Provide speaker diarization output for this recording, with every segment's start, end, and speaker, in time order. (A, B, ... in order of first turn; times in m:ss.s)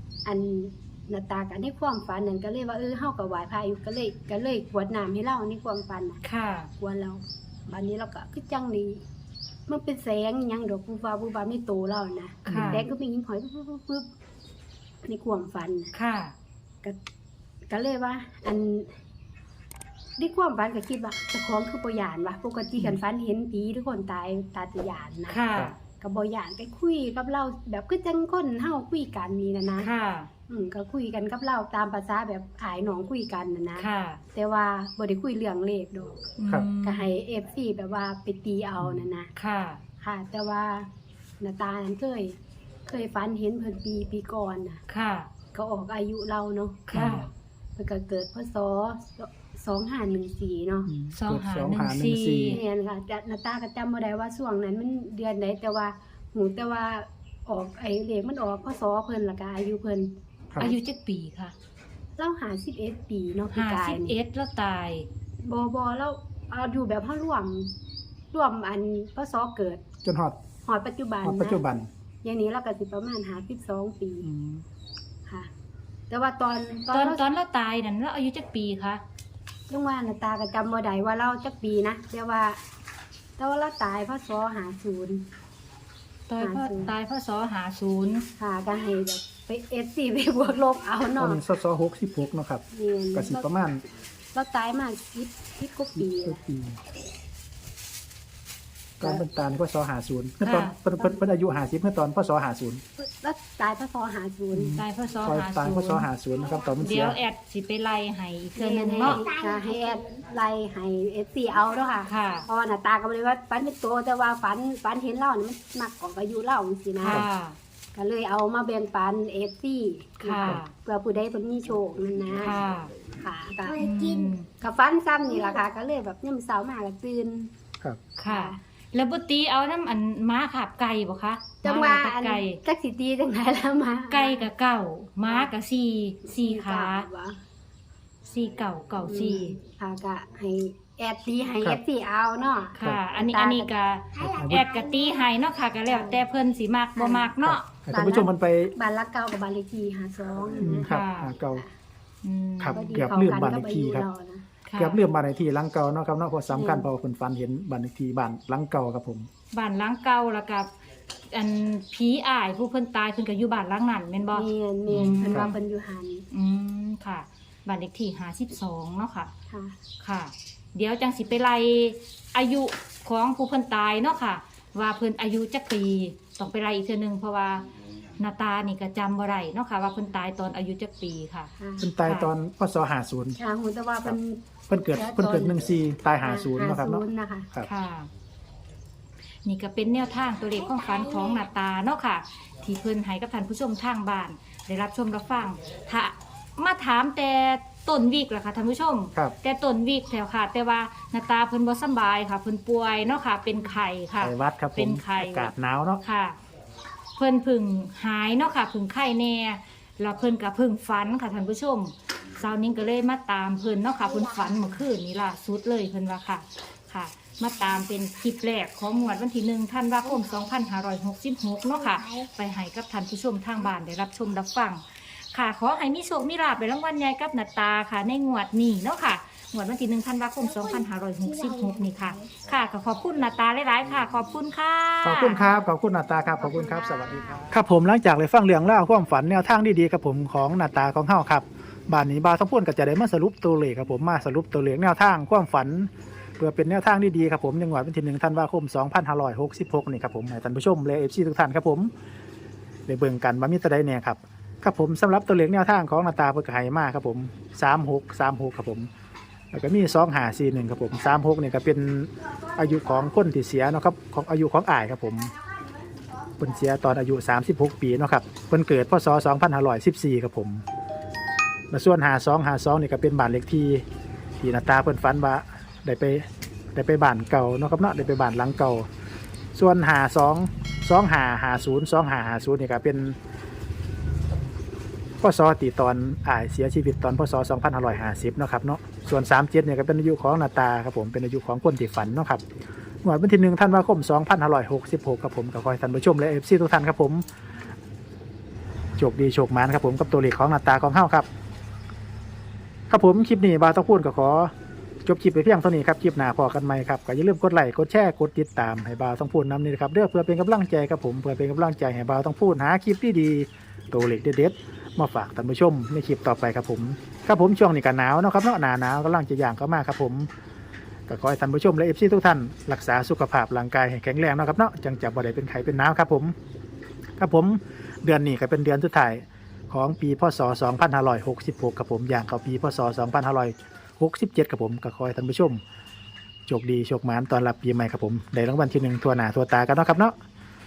0:00.2-0:06.2 A
0:06.2-0:06.7 B
0:06.8-0:09.0 A
0:09.7-0:14.1 A
0:12.4-0:12.8 C
0:12.4-0:12.8 B
0:15.0-0:15.9 A
0:15.9-0:16.3 B
0:17.7-0:18.9 A
0:20.2-0:29.9 A
0:25.3-0:25.8 B
0:29.8-0:30.3 B
0:30.5-0:39.3 A
0:33.8-0:34.2 B
0:36.4-0:37.1 B
0:38.8-0:39.0 C
0:39.4-0:39.8 B
0:40.0-0:40.9 A
0:41.4-0:44.8 A
0:44.9-0:45.3 B
0:45.5-0:47.0 A
0:46.9-0:47.3 B
0:46.9-0:47.3 C
0:47.8-0:50.9 A
0:50.8-0:52.6 C
0:51.1-0:52.6 B
0:52.4-1:00.1 A
1:00.6-1:01.5 B
1:02.2-1:04.1 A
1:03.5-1:05.1 B
1:05.4-1:07.7 A
1:08.3-1:09.8 A
1:10.0-1:10.4 C
1:10.6-1:11.6 A
1:11.2-1:11.9 C
1:12.2-1:14.3 A
1:14.2-1:14.6 C
1:16.1-1:17.2 A
1:16.9-1:19.0 B
1:19.7-1:22.6 A
1:23.4-1:25.2 A
1:26.3-1:28.2 B
1:26.4-1:26.9 A
1:28.4-1:31.4 A
1:31.2-1:33.8 C
1:32.7-1:33.5 A
1:34.3-1:36.4 A
1:36.0-1:36.8 C
1:39.0-1:42.8 C
1:40.4-1:40.7 B
1:43.0-1:44.8 A
1:44.5-1:47.2 C
1:44.7-1:46.1 B
1:46.8-1:49.3 B
1:48.6-1:57.2 A
1:52.0-1:52.4 B
1:57.0-1:57.6 B
1:57.9-2:03.9 A
2:00.2-2:00.7 B
2:02.4-2:03.0 B
2:03.8-2:04.4 B
2:04.6-2:07.5 A
2:08.2-2:12.6 B
2:08.2-2:08.6 A
2:11.6-2:14.5 A
2:14.1-2:17.1 B
2:15.2-2:15.5 A
2:16.2-2:17.4 A
2:18.2-2:19.6 B
2:19.0-2:23.7 A
2:22.7-2:27.7 B
2:24.2-2:24.7 C
2:27.0-2:27.3 A
2:27.4-2:28.7 C
2:27.9-2:30.9 A
2:30.6-2:31.6 C
2:30.8-2:31.3 B
2:32.2-2:33.1 B
2:32.6-2:34.0 C
2:32.7-2:34.4 A
2:34.6-2:35.0 B
2:34.8-2:39.3 C
2:36.5-2:36.9 A
2:39.5-2:40.7 B
2:41.3-2:45.6 B
2:44.3-2:46.3 A
2:44.9-2:45.5 C
2:46.3-2:49.3 B
2:49.5-2:49.8 A
2:50.0-3:01.5 B
3:01.6-3:01.9 A
3:01.8-3:03.4 C
3:02.0-3:02.3 B
3:03.4-3:04.4 A
3:04.7-3:07.7 C
3:04.9-3:05.6 A
3:06.2-3:07.5 A
3:07.6-3:08.1 B
3:09.4-3:25.5 B
3:24.2-3:26.0 C
3:26.0-3:26.4 B
3:27.2-3:55.5 B
3:55.0-4:11.9 C
4:12.9-4:18.9 C
4:19.5-4:25.3 C
4:26.3-4:30.6 C
4:31.7-4:33.8 C
4:34.4-4:38.9 C
4:39.5-4:43.2 C
4:45.2-4:52.4 C
4:53.0-4:57.2 C
4:59.0-5:01.3 C
5:02.9-5:04.5 C
5:05.0-5:20.3 C
5:21.1-5:26.3 C
5:27.2-5:35.6 C
5:36.5-5:40.1 C